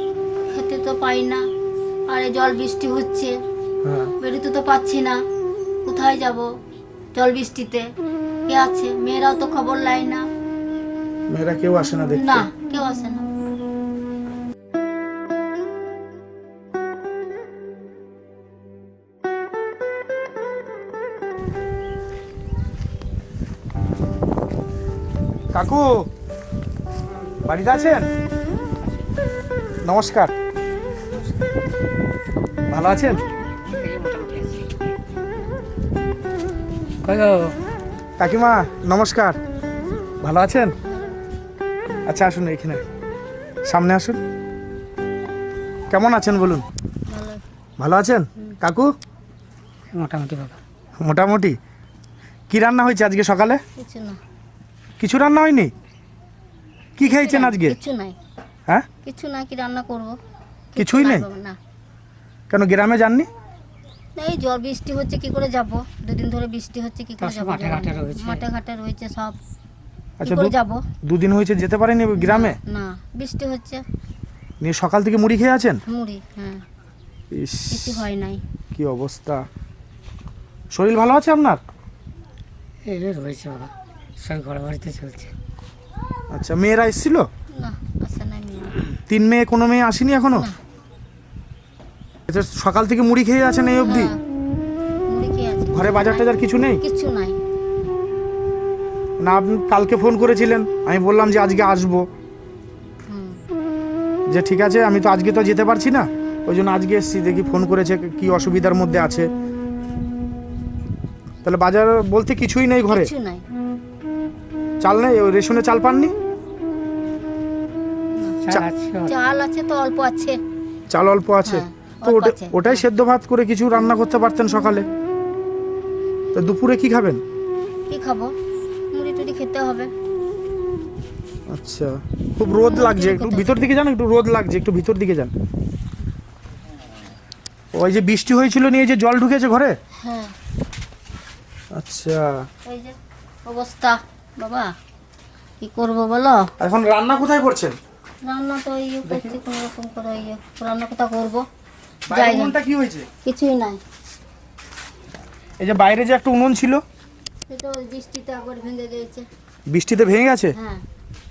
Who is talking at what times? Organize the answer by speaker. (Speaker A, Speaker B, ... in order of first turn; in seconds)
Speaker A: 0.5-1.4, 2.1-3.3, 4.2-5.2, 5.8-6.5, 7.1-7.9, 8.5-10.2, 12.2-13.3, 40.8-41.2, 47.1-47.4, 53.8-54.2, 57.0-58.1, 59.0-60.2, 60.7-61.5, 64.2-69.4, 70.2-70.8, 72.2-73.8, 75.9-76.6, 77.7-78.4, 87.6-88.7, 93.8-94.2, 95.1-96.2, 96.8-97.4, 103.1-103.4, 112.9-113.4, 119.0-120.4, 121.4-122.8, 127.9-128.3, 128.9-129.9, 132.6-133.7, 140.0-140.3, 142.7-142.9, 143.4-144.7, 145.6-146.5, 148.2-151.4, 152.1-152.5, 153.2-153.8, 157.5-159.2, 160.6-160.8
Speaker B: 3.8-4.1, 11.3-12.5, 25.5-26.1, 27.4-28.1, 29.8-30.3, 32.7-33.2, 38.2-39.4, 40.2-40.7, 42.1-42.8, 43.7-44.2, 45.9-46.6, 47.8-48.9, 51.0-51.5, 52.5-53.6, 55.0-55.7, 57.0-57.8, 60.8-61.3, 62.5-63.3, 70.2-70.5, 71.0-72.6, 74.6-75.8, 77.3-78.0, 78.7-79.5, 80.7-81.6, 86.3-87.2, 89.1-90.5, 92.3-94.1, 95.7-96.8, 99.2-102.0, 104.3-109.3, 111.4-113.1, 114.8-116.1, 120.9-124.8, 126.3-127.2, 131.5-135.3, 137.7-139.7, 141.7-142.4, 146.6-147.7, 149.1-149.4, 152.1-153.1, 155.6-156.8, 159.7-160.5
Speaker C: 33.7-34.9, 37.0-37.6, 49.9-50.6, 67.2-68.4, 82.8-85.3, 118.4-119.1